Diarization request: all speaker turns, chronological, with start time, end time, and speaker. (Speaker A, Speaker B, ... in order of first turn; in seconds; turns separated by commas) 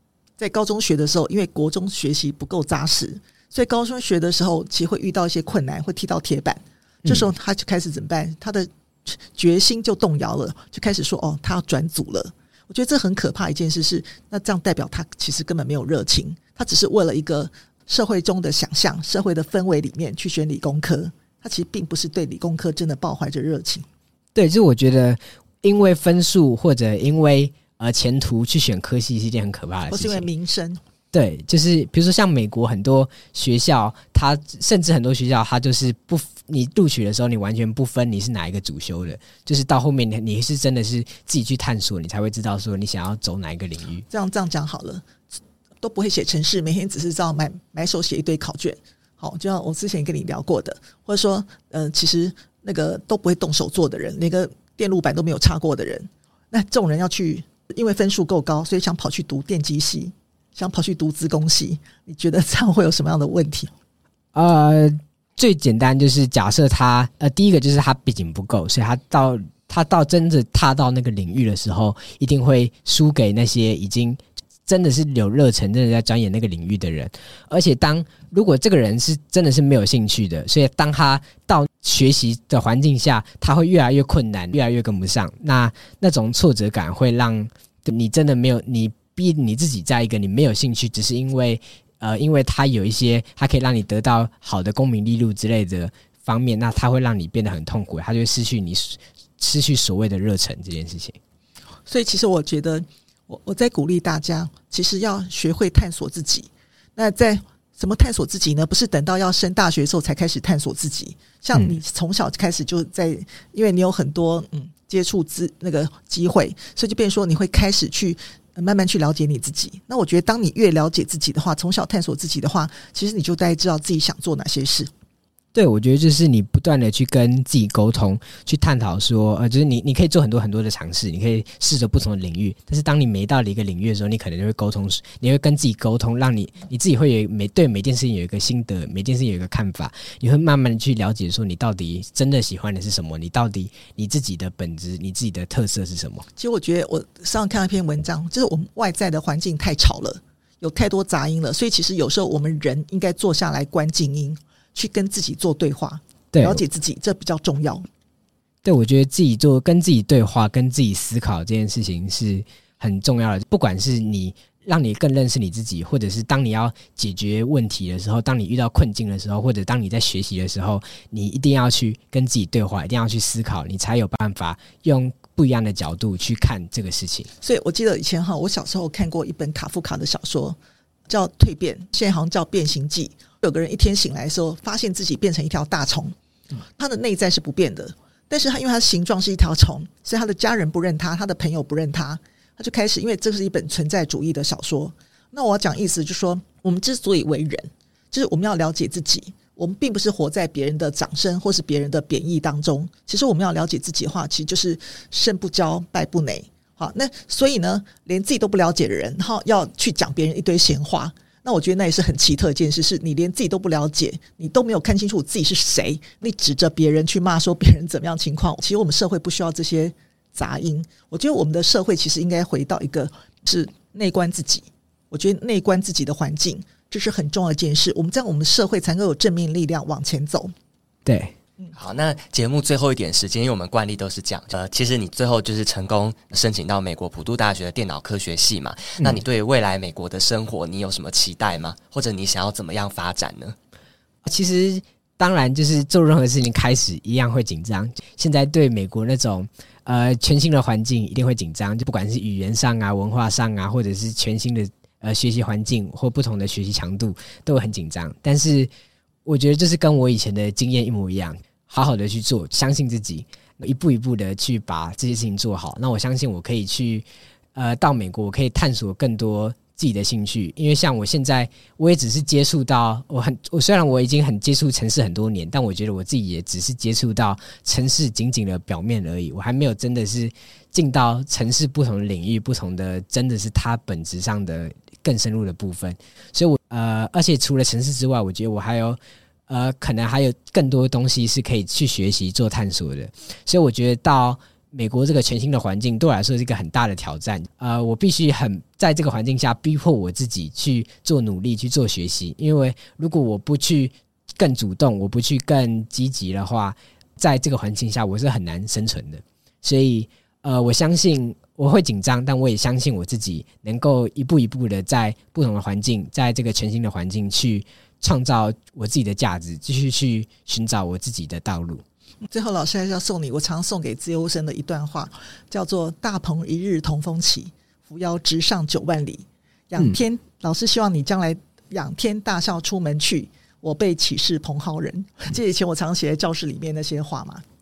Speaker A: 0.4-23.9, Speaker B: 24.4-30.3, Speaker A: 29.9-30.8, Speaker B: 31.1-44.0, Speaker A: 44.1-45.1, Speaker A: 45.8-63.7, Speaker B: 64.3-101.2, Speaker A: 101.9-124.9, Speaker B: 125.5-146.3, Speaker A: 146.4-157.9, Speaker B: 156.3-156.6, Speaker B: 158.6-177.3, Speaker A: 177.4-180.6, Speaker A: 181.1-186.2, Speaker A: 186.8-230.5, Speaker B: 231.1-231.3, Speaker C: 231.8-243.6, Speaker B: 244.2-258.7, Speaker B: 259.2-321.8, Speaker A: 322.2-337.4